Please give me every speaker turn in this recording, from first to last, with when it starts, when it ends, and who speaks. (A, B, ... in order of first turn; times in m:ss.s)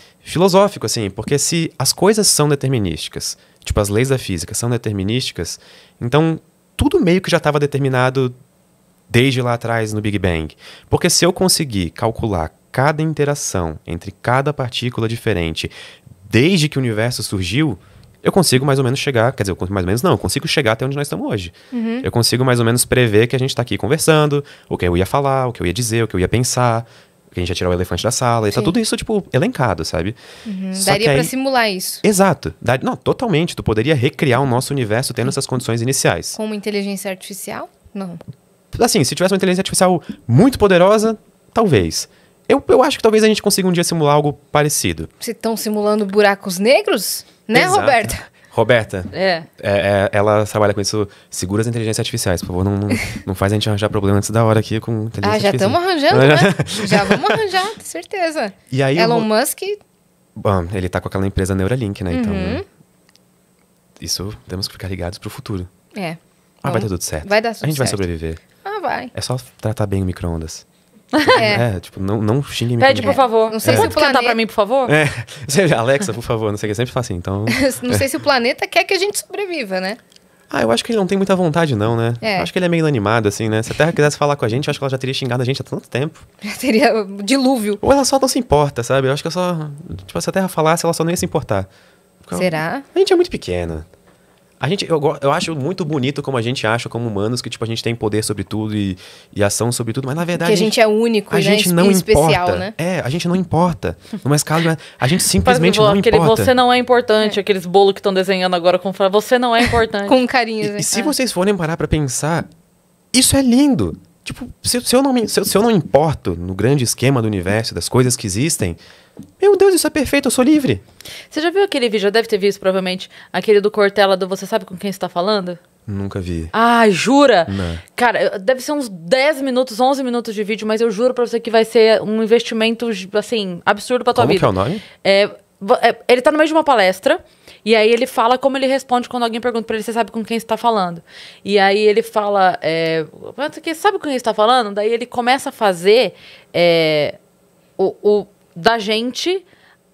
0:00.2-0:08.3 A
0:09.1-0:15.7 A
0:16.3-0:30.2 A
0:21.7-0:22.1 B
0:30.4-0:32.0 B
0:30.7-0:31.3 A
0:32.0-0:36.4 A
0:36.3-0:38.2 B
0:38.7-0:45.1 A
0:45.2-0:48.2 B
0:47.5-0:57.4 A
0:49.1-0:49.5 C
0:55.2-0:59.8 B
0:58.7-0:59.3 A
1:00.4-1:02.6 A
1:02.1-1:02.6 B
1:04.0-1:05.7 A
1:05.9-1:08.0 B
1:06.6-1:08.4 A
1:08.6-1:09.1 B
1:09.1-1:10.6 A
1:11.1-1:11.5 C
1:11.2-1:14.0 A
1:11.4-1:11.7 B
1:12.8-1:14.9 C
1:13.0-1:14.4 B
1:14.9-1:18.1 A
1:17.5-1:20.0 B
1:20.5-1:26.2 A
1:22.2-1:22.5 B
1:26.4-1:27.8 B
1:27.8-1:31.7 A
1:32.2-1:33.9 A
1:32.4-1:32.9 B
1:34.6-1:40.8 A
1:40.4-1:42.8 B
1:41.3-1:46.5 A
1:45.4-1:50.2 C
1:50.1-1:51.1 B
1:50.6-1:52.5 A
1:53.1-1:58.8 A
1:59.4-2:00.8 A
2:01.3-2:05.6 C
2:05.9-2:06.5 A
2:06.5-2:14.5 C
2:07.5-2:07.8 A
2:14.1-2:14.8 A
2:15.0-2:27.2 C
2:27.8-2:29.4 C